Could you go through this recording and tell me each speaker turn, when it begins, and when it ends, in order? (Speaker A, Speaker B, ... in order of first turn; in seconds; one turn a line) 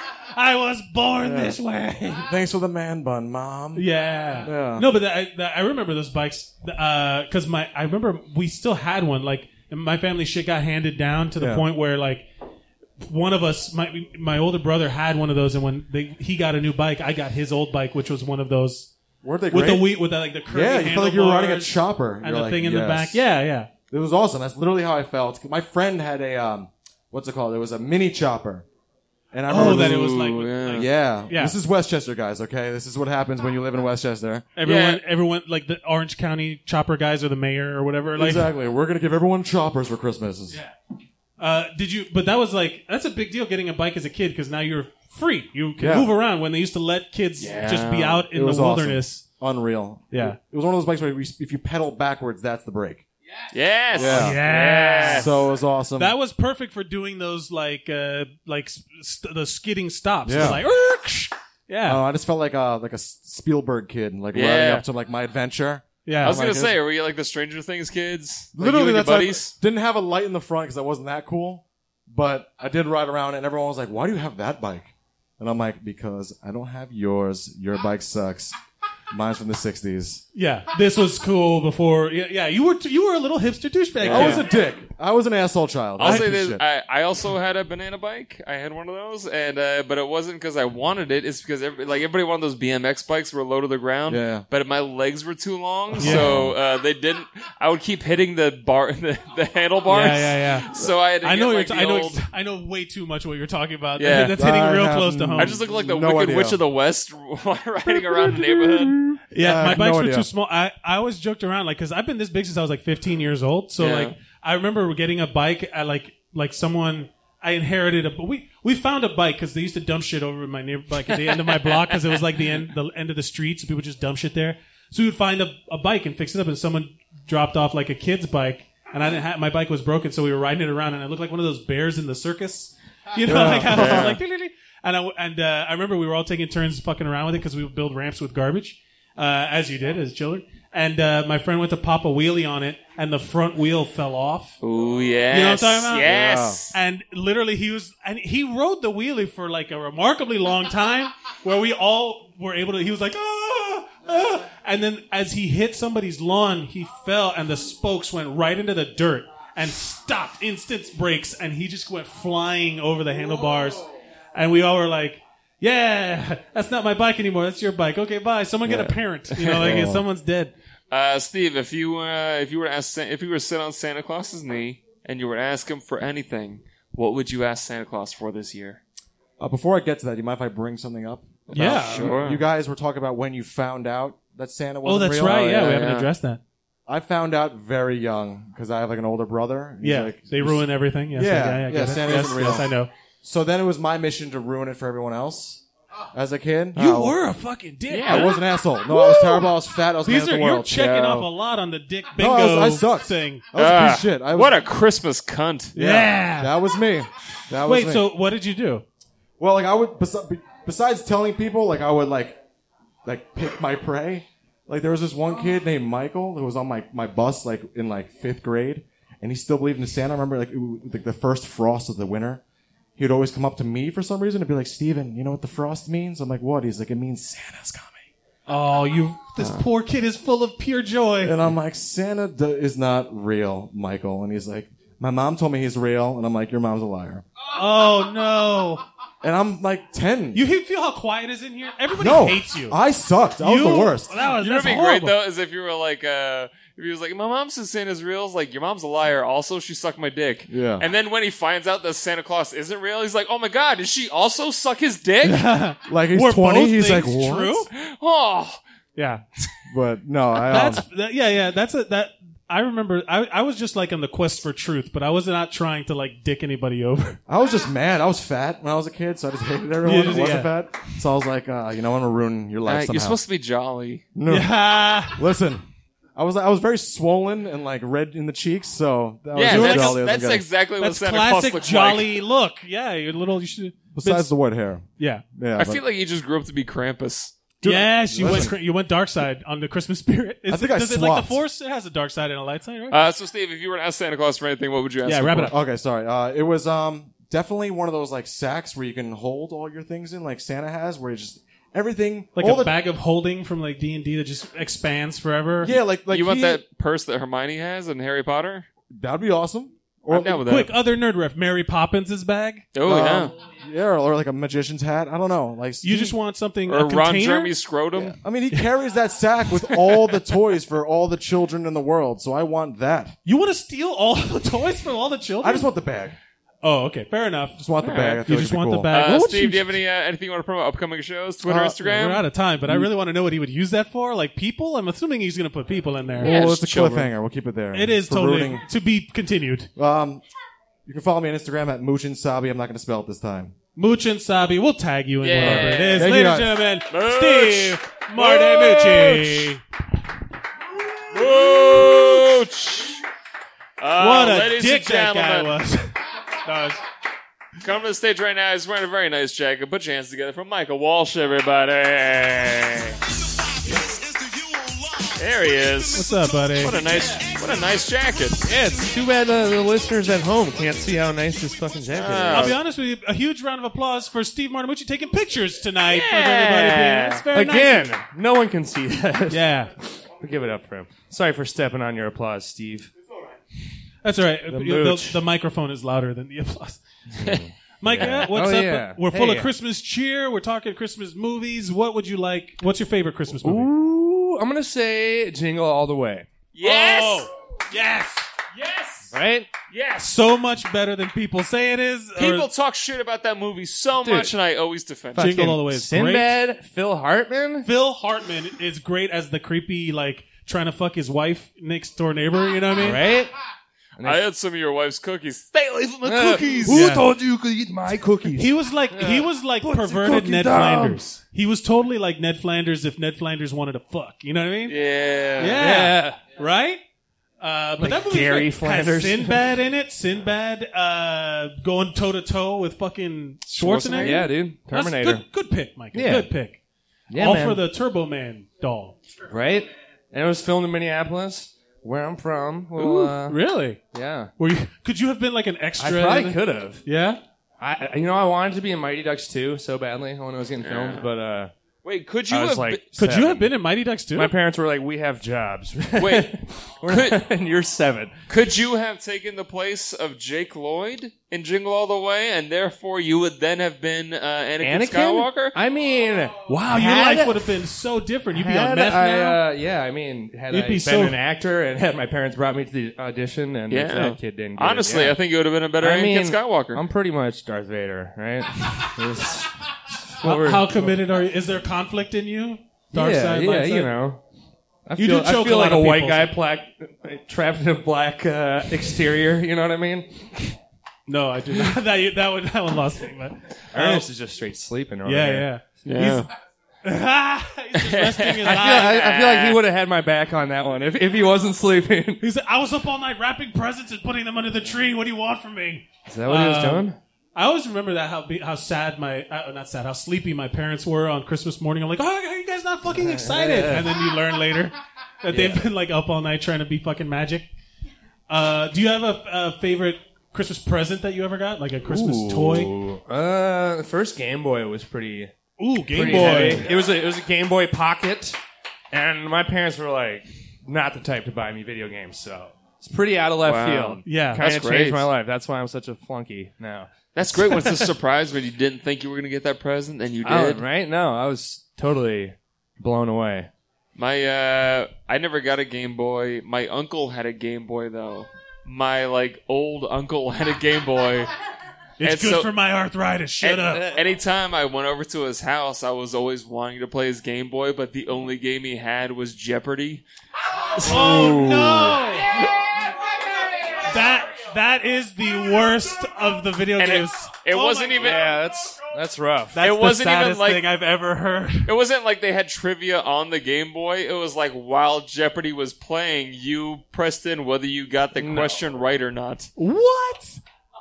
Speaker A: 0.3-2.3
Speaker B: 1.2-1.5
Speaker B: 2.3-3.8
Speaker A: 3.7-12.2
Speaker B: 4.4-4.9
Speaker B: 11.4-11.6
Speaker A: 13.0-18.9
Speaker B: 19.2-19.9
Speaker A: 19.5-23.7
Speaker B: 20.5-23.2
Speaker B: 23.9-28.6
Speaker B: 29.3-30.1
Speaker A: 29.5-31.6
Speaker C: 29.5-30.9
Speaker B: 30.7-34.5
Speaker A: 34.5-38.5
Speaker C: 34.6-35.0
Speaker B: 38.2-40.6
Speaker A: 41.4-49.3
Speaker B: 45.8-46.1
Speaker C: 47.4-48.2
Speaker B: 48.3-53.0
Speaker A: 50.1-50.4
Speaker C: 53.5-55.3
Speaker B: 53.9-54.4
Speaker A: 54.0-55.4
Speaker B: 54.9-56.1
Speaker A: 56.0-62.0
Speaker B: 60.2-60.6
Speaker B: 61.9-66.7
Speaker C: 64.3-64.8
Speaker A: 66.0-66.4
Speaker C: 66.2-69.5
Speaker B: 68.5-78.5
Speaker B: 79.1-80.2
Speaker A: 80.3-84.6
Speaker B: 84.0-86.6
Speaker C: 84.1-84.4
Speaker C: 86.0-102.2
Speaker B: 94.1-94.5
Speaker B: 96.0-96.5
Speaker A: 96.0-96.4
Speaker A: 99.9-100.7
Speaker A: 101.2-105.6
Speaker C: 104.0-104.4
Speaker B: 104.3-106.6
Speaker C: 105.4-109.2
Speaker B: 108.9-110.3
Speaker A: 109.3-144.5
Speaker C: 113.8-114.1
Speaker B: 133.2-134.2
Speaker C: 133.7-134.2
Speaker C: 144.6-146.7
Speaker A: 145.3-146.1
Speaker B: 146.0-146.6
Speaker A: 146.7-163.8
Speaker A: 164.3-170.5
Speaker C: 169.3-169.8
Speaker B: 169.6-170.0
Speaker C: 170.9-178.8
Speaker B: 179.4-185.8
Speaker C: 181.5-182.4
Speaker A: 181.5-182.2
Speaker A: 184.8-186.4
Speaker C: 185.6-186.1
Speaker B: 186.9-192.7
Speaker A: 189.8-192.9
Speaker B: 193.2-195.6
Speaker B: 196.1-197.2
Speaker A: 196.8-199.5
Speaker C: 197.9-198.3
Speaker B: 198.1-201.2
Speaker A: 200.0-203.4
Speaker B: 202.2-204.6
Speaker C: 203.5-205.7
Speaker B: 205.7-208.1
Speaker A: 205.8-206.5
Speaker A: 207.6-208.8
Speaker B: 209.4-212.4
Speaker B: 213.0-222.4
Speaker B: 223.0-228.0
Speaker A: 228.5-231.4
Speaker C: 229.4-229.6
Speaker B: 231.2-237.2
Speaker A: 237.5-238.8
Speaker B: 239.2-240.4
Speaker A: 240.3-242.8
Speaker B: 242.0-244.1
Speaker A: 243.4-245.2
Speaker C: 244.4-255.5
Speaker B: 250.5-250.8
Speaker A: 255.2-257.7
Speaker B: 255.9-257.6
Speaker C: 257.7-258.6
Speaker A: 258.9-259.2
Speaker B: 259.7-260.8
Speaker A: 260.4-267.2
Speaker B: 267.3-273.2
Speaker A: 269.8-270.5
Speaker C: 272.6-274.1
Speaker B: 274.1-274.5
Speaker A: 274.3-275.3
Speaker B: 275.1-275.6
Speaker B: 276.1-280.4
Speaker C: 279.3-282.1
Speaker A: 279.4-280.0
Speaker A: 280.8-284.3
Speaker B: 283.9-285.8
Speaker A: 285.0-285.2
Speaker C: 285.6-287.4
Speaker B: 287.6-288.5
Speaker A: 287.6-293.0
Speaker C: 288.2-288.5
Speaker B: 290.5-291.4
Speaker C: 292.9-295.5
Speaker A: 295.1-295.5
Speaker B: 295.5-302.7
Speaker A: 302.4-305.8
Speaker B: 305.6-306.6
Speaker C: 306.1-308.7
Speaker B: 308.9-310.4
Speaker C: 310.1-310.7
Speaker A: 310.4-312.7
Speaker C: 312.7-313.3
Speaker B: 312.8-316.1
Speaker A: 315.8-317.5
Speaker C: 316.7-318.2
Speaker B: 317.9-323.1
Speaker C: 319.7-320.0
Speaker A: 323.2-325.7
Speaker B: 325.4-326.1
Speaker A: 326.6-327.7
Speaker B: 327.6-328.9
Speaker C: 327.8-328.2
Speaker A: 328.2-329.7
Speaker C: 328.9-332.2
Speaker B: 331.5-331.8
Speaker A: 331.8-336.4
Speaker B: 336.2-338.6
Speaker C: 336.2-337.1
Speaker A: 337.7-339.7
Speaker B: 339.8-340.2
Speaker B: 340.9-343.5
Speaker A: 343.8-349.6
Speaker C: 345.2-346.1
Speaker B: 345.4-346.6
Speaker C: 346.9-349.5
Speaker C: 351.1-353.0
Speaker C: 353.8-355.5
Speaker A: 354.0-355.9
Speaker A: 356.4-356.8
Speaker C: 357.6-363.0
Speaker C: 365.1-368.4
Speaker A: 365.9-366.8
Speaker D: 368.4-372.5
Speaker C: 371.9-372.6
Speaker A: 372.3-377.9
Speaker C: 375.9-377.2
Speaker D: 377.3-382.9
Speaker A: 379.3-379.7
Speaker A: 384.0-386.8
Speaker D: 384.5-385.2
Speaker D: 387.1-389.5
Speaker A: 387.8-393.7
Speaker C: 388.0-388.2
Speaker D: 393.4-396.3
Speaker C: 396.5-397.3
Speaker A: 396.6-398.2
Speaker C: 398.5-399.1
Speaker D: 399.1-399.5
Speaker C: 399.7-400.1
Speaker A: 400.0-402.5
Speaker C: 402.2-405.3
Speaker D: 404.0-404.3
Speaker D: 405.1-407.7
Speaker A: 405.2-406.4
Speaker A: 407.6-413.0
Speaker D: 412.8-413.3
Speaker D: 414.0-414.2
Speaker C: 414.0-416.7
Speaker D: 416.0-421.0
Speaker A: 416.6-417.1
Speaker A: 418.3-424.8
Speaker C: 424.7-425.6
Speaker A: 425.4-426.8
Speaker D: 425.6-426.2
Speaker A: 427.4-436.6
Speaker D: 427.8-429.4
Speaker D: 433.6-435.2
Speaker C: 433.9-434.2
Speaker D: 435.9-436.3
Speaker D: 437.1-437.6
Speaker A: 437.1-438.9
Speaker D: 439.3-444.3
Speaker C: 442.8-443.1
Speaker A: 442.8-443.8
Speaker A: 444.4-447.2
Speaker D: 445.8-446.8
Speaker D: 447.6-451.5
Speaker C: 450.6-451.0
Speaker C: 451.8-452.8
Speaker D: 452.3-453.5
Speaker A: 452.9-454.3
Speaker D: 454.1-458.1
Speaker C: 456.0-456.3
Speaker C: 456.9-457.2
Speaker C: 458.3-465.6
Speaker D: 464.6-467.4
Speaker A: 466.5-469.4
Speaker D: 468.3-475.2
Speaker A: 470.5-471.2
Speaker C: 473.7-476.8
Speaker D: 475.8-479.5
Speaker D: 480.1-480.9
Speaker A: 480.2-483.9
Speaker D: 482.9-484.2
Speaker D: 484.9-490.5
Speaker A: 485.0-486.3
Speaker A: 491.1-494.1
Speaker D: 493.7-495.5
Speaker A: 495.0-496.3
Speaker C: 495.9-496.3
Speaker A: 496.8-499.0
Speaker C: 497.8-499.6
Speaker D: 498.5-502.2
Speaker A: 502.2-517.5
Speaker D: 506.1-507.0
Speaker D: 512.9-513.9
Speaker D: 515.3-515.6
Speaker A: 518.3-522.7
Speaker D: 521.9-525.3
Speaker A: 525.6-526.7
Speaker D: 525.9-528.4
Speaker D: 528.9-537.9
Speaker C: 533.4-535.1
Speaker A: 534.0-534.4
Speaker C: 537.1-540.6
Speaker D: 540.2-543.5
Speaker C: 544.0-551.3
Speaker A: 552.0-553.9
Speaker C: 552.0-552.5
Speaker C: 553.4-560.0
Speaker A: 560.8-562.4
Speaker D: 561.0-561.6
Speaker A: 563.9-568.3
Speaker C: 566.8-568.3
Speaker D: 568.0-569.6
Speaker A: 569.5-571.7
Speaker C: 569.6-570.7
Speaker C: 571.6-579.5
Speaker D: 578.2-578.6
Speaker A: 579.6-580.4